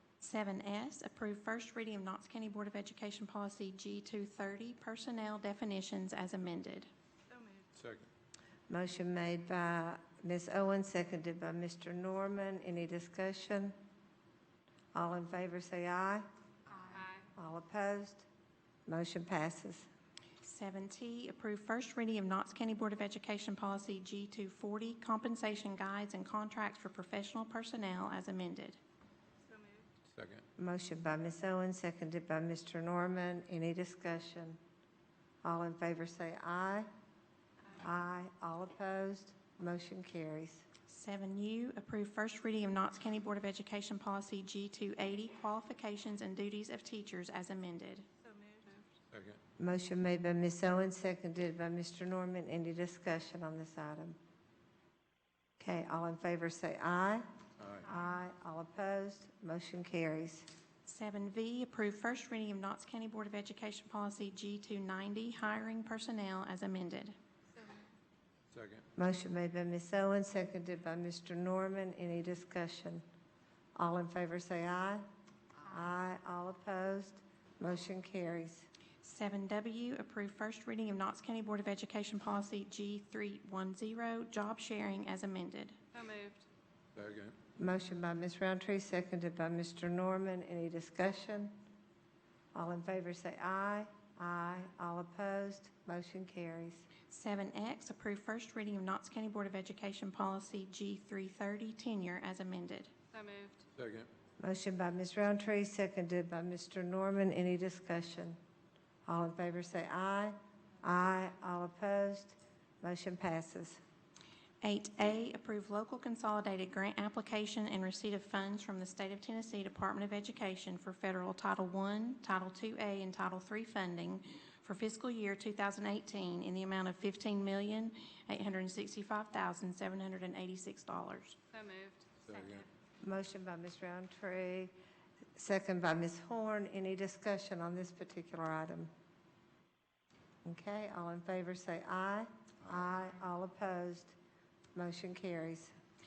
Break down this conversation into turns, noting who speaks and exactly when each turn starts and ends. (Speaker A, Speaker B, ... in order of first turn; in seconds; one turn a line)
Speaker A: 0.2-6.9
Speaker B: 7.7-8.1
Speaker C: 8.7-13.8
Speaker C: 14.9-16.2
Speaker D: 16.9-17.2
Speaker C: 17.4-18.3
Speaker C: 18.9-19.9
Speaker A: 20.4-28.8
Speaker B: 30.1-30.4
Speaker C: 30.6-34.6
Speaker C: 35.4-36.9
Speaker C: 37.8-40.6
Speaker A: 40.9-48.9
Speaker B: 49.1-49.4
Speaker C: 49.6-54.2
Speaker C: 55.6-57.2
Speaker B: 57.6-57.9
Speaker C: 57.9-60.5
Speaker A: 60.9-67.2
Speaker B: 68.5-68.8
Speaker C: 69.0-73.0
Speaker C: 73.8-75.0
Speaker C: 75.7-78.7
Speaker A: 79.0-85.9
Speaker D: 85.9-86.5
Speaker B: 87.0-87.3
Speaker C: 87.6-91.5
Speaker C: 92.5-96.9
Speaker A: 97.1-103.0
Speaker D: 103.1-103.7
Speaker B: 103.8-104.1
Speaker C: 104.4-108.4
Speaker C: 109.1-113.8
Speaker A: 114.6-131.4
Speaker D: 131.5-132.6
Speaker B: 132.2-132.7
Speaker C: 133.0-134.7
Speaker C: 135.4-138.9
Speaker C: 140.4-144.2
Speaker C: 144.8-145.7